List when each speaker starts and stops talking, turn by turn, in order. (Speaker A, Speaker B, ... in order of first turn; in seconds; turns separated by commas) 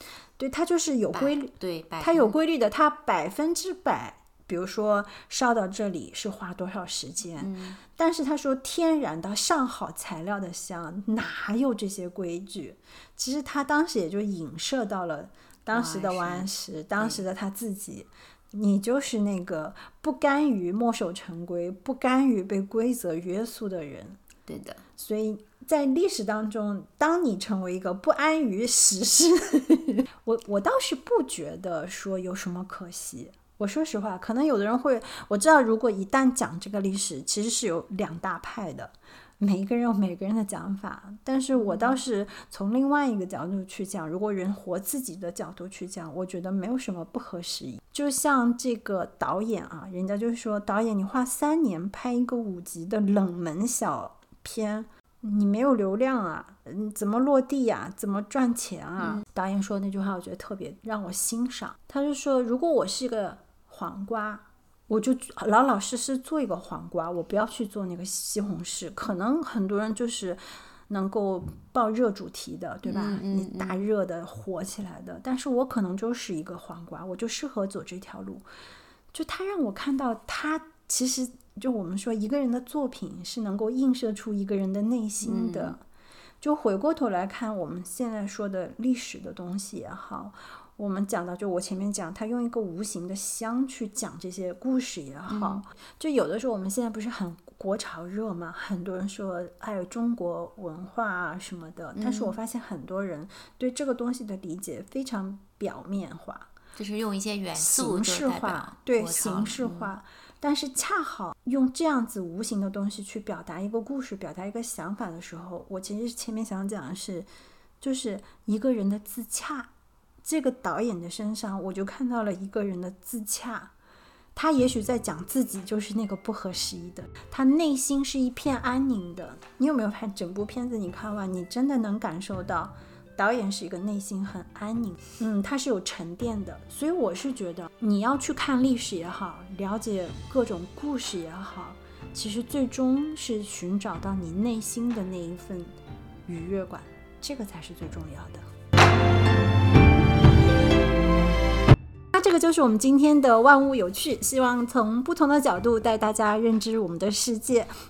Speaker A: 0.4-24.2, Speaker B: 1.1-2.4, Speaker B: 7.4-7.8, Speaker B: 15.7-17.2, Speaker B: 24.5-24.8, Speaker A: 25.0-78.5, Speaker B: 41.5-42.0, Speaker B: 59.0-59.2, Speaker B: 72.8-73.8, Speaker A: 79.1-85.8, Speaker B: 85.2-85.8, Speaker A: 86.4-106.5, Speaker B: 95.3-95.7, Speaker B: 102.0-102.4, Speaker B: 106.8-110.0, Speaker A: 107.5-117.3, Speaker A: 117.8-119.7, Speaker A: 120.2-123.7, Speaker A: 124.3-148.4, Speaker A: 152.1-157.7